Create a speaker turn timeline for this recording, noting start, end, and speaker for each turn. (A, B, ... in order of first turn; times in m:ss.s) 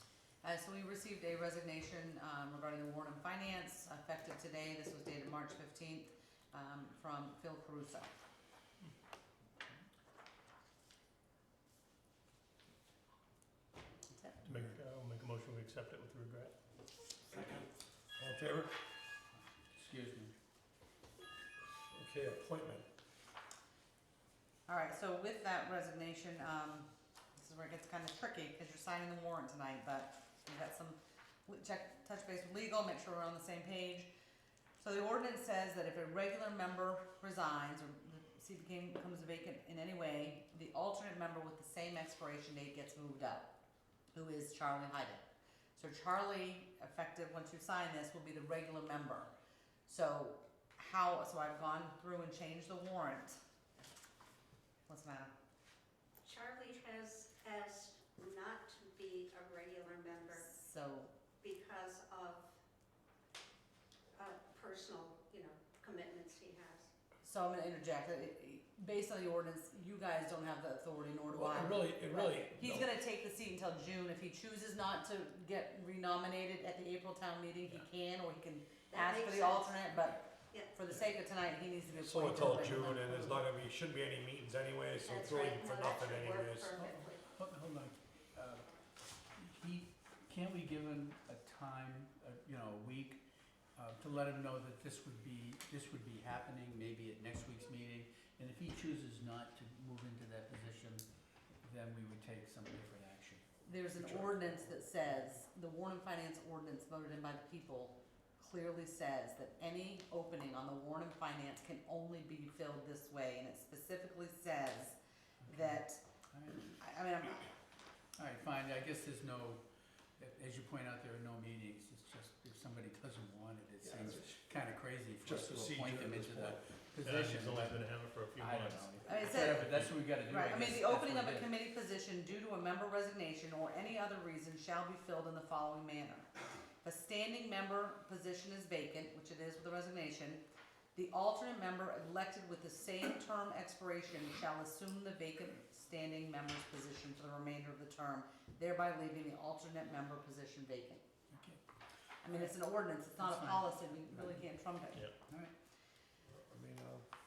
0:00.4-0:08.1 A
0:14.4-0:16.5 B
0:17.3-0:18.8 C
0:19.6-0:20.3 D
0:21.8-0:22.9 C
0:24.6-0:34.1 A
0:34.8-0:43.6 A
0:44.1-0:45.2 A
0:45.8-0:49.3 A
0:49.8-0:53.4 A
0:54.9-0:55.3 A
0:56.2-1:00.5 E
1:00.4-1:01.1 A
1:01.4-1:02.6 E
1:04.1-1:06.9 E
1:07.2-1:23.4 A
1:11.3-1:12.9 C
1:18.9-1:20.7 E
1:21.9-1:26.8 C
1:25.0-1:27.2 E
1:26.8-1:33.2 D
1:33.7-1:41.0 D
1:41.6-1:43.4 D
1:43.6-1:55.0 A
1:44.0-1:44.5 C
1:55.4-1:56.8 D
1:55.5-1:56.0 A
1:56.8-1:57.4 A
1:58.2-1:59.6 D
2:00.2-2:11.5 D
2:03.8-2:04.4 C
2:05.2-2:07.4 C
2:07.0-2:10.0 B
2:09.0-2:09.7 A
2:10.2-2:20.4 A
2:20.9-2:31.0 A
2:31.3-2:31.6 D
2:32.2-2:34.5 D
2:32.2-2:35.0 A
2:35.2-2:35.5 D
2:36.2-2:37.1 C